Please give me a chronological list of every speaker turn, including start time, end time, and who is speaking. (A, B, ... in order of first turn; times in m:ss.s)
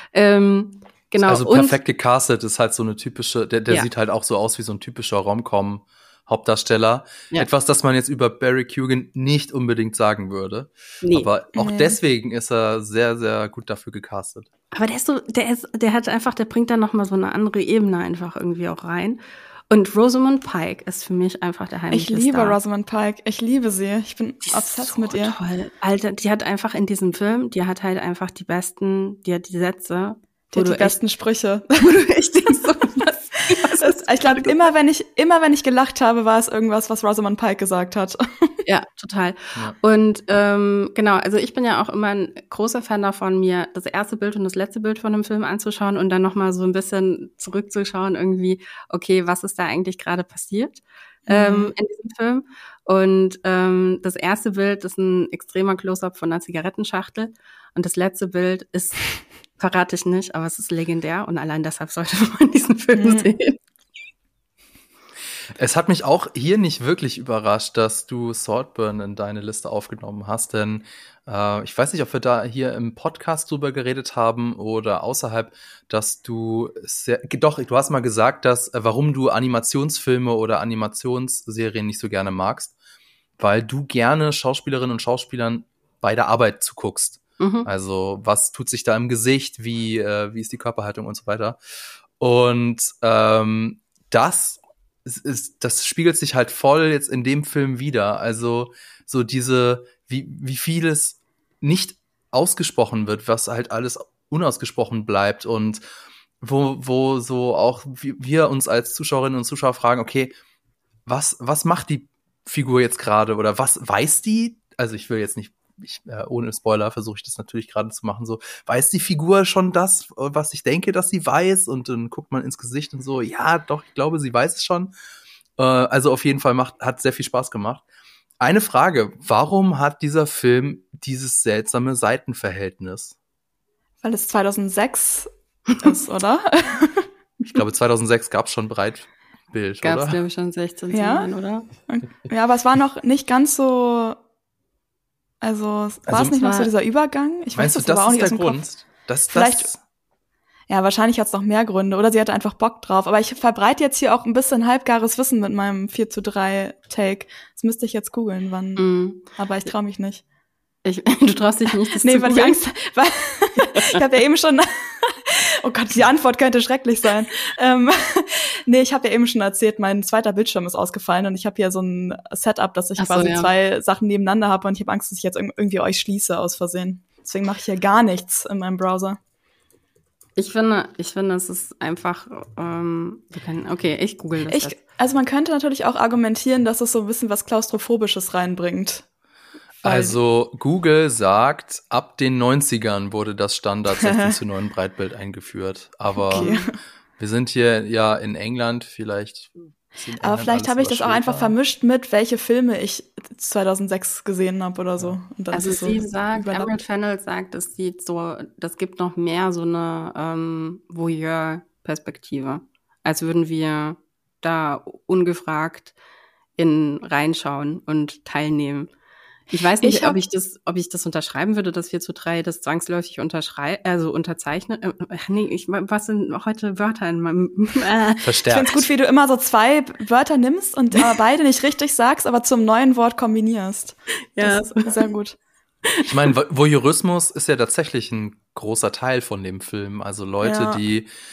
0:00.1-0:01.8 A
0:01.2-0:14.5 B
0:11.0-0:11.3 A
0:11.6-0:12.0 C
0:14.7-0:22.6 A
0:21.9-0:25.4 C
0:24.5-0:31.0 A
0:30.5-0:31.8 C
0:31.8-0:34.7 A
0:33.5-0:38.6 C
0:38.6-1:03.6 A
0:51.3-0:51.7 C
1:02.9-1:03.3 C
1:05.6-1:22.7 B
1:23.4-1:31.6 B
1:27.4-1:27.7 A
1:32.2-1:45.8 B
1:46.4-1:50.3 B
1:51.0-2:04.9 B
2:05.6-2:07.8 B
2:08.4-2:13.2 B
2:14.0-2:17.1 C
2:17.4-2:20.2 B
2:19.8-2:21.7 A
2:20.9-2:24.2 C
2:25.4-2:28.6 C
2:26.1-2:26.4 B
2:26.4-2:26.7 A
2:27.5-2:29.8 B
2:29.3-2:29.7 C
2:30.7-2:40.2 C
2:38.8-2:39.3 A
2:40.8-2:42.6 A
2:42.0-2:59.2 C
2:43.8-2:44.0 A
2:53.0-2:53.5 A
3:00.4-3:04.8 A
3:04.5-3:09.0 C
3:09.8-3:10.2 C
3:09.8-3:16.5 B
3:14.0-3:14.4 C
3:16.2-3:16.7 C
3:16.3-3:16.6 A
3:17.2-3:21.6 B
3:20.2-3:26.7 C
3:25.5-3:35.9 A
3:36.6-3:38.9 A
3:39.5-3:48.2 A
3:39.8-3:40.2 C
3:48.2-3:48.9 B
3:48.5-3:55.4 C
3:54.3-3:54.9 A
3:56.0-4:01.1 B
4:00.4-4:00.8 C